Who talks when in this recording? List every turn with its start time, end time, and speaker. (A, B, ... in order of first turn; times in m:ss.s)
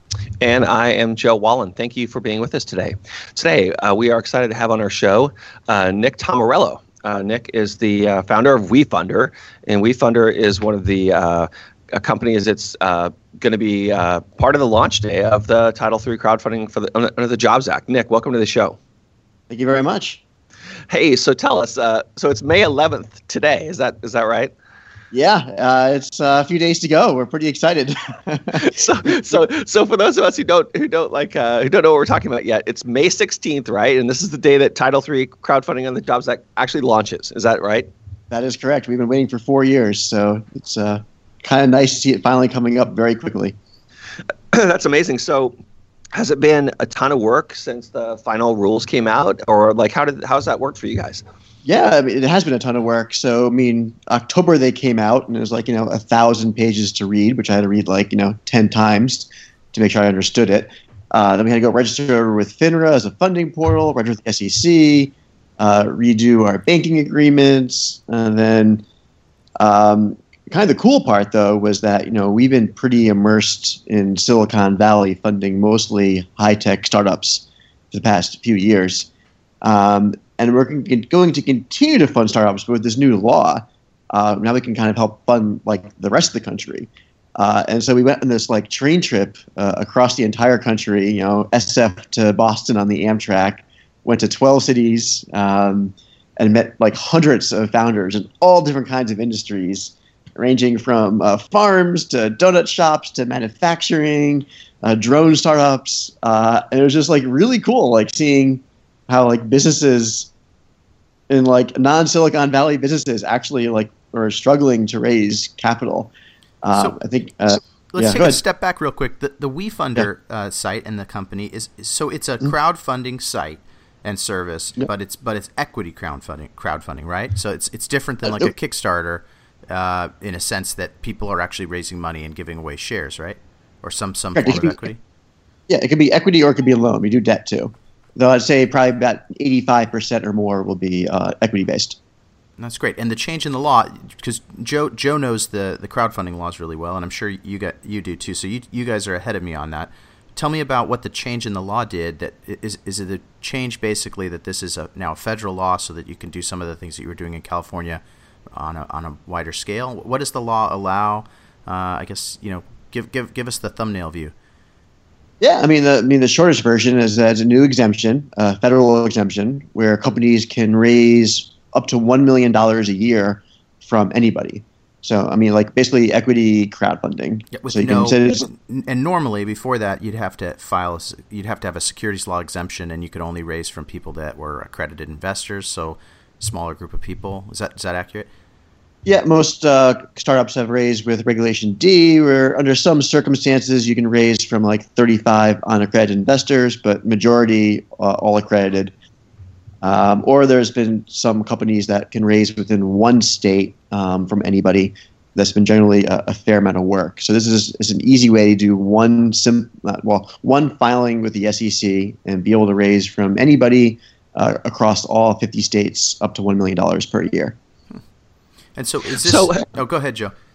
0:00.4-0:18.8 A
0:19.5-0:20.2 B
0:20.9-0:24.5 A
0:25.1-0:29.4 B
0:28.6-0:37.9 A
0:38.3-0:43.6 B
0:44.5-0:45.6 A
0:46.1-0:51.2 A
0:51.6-1:08.8 B
1:09.6-1:19.1 B
1:19.6-1:50.3 B
1:51.3-1:56.1 B
1:56.6-1:58.4 B
1:56.7-1:57.0 C
1:57.5-2:15.0 C
2:14.4-2:14.8 B
2:15.7-2:22.0 B
2:22.6-2:38.0 C
2:38.5-2:44.3 C
2:45.4-2:58.5 B
2:57.5-3:08.3 C
3:09.1-3:18.9 B
3:19.8-3:37.6 B
3:38.8-3:40.3 C
3:39.2-3:39.6 A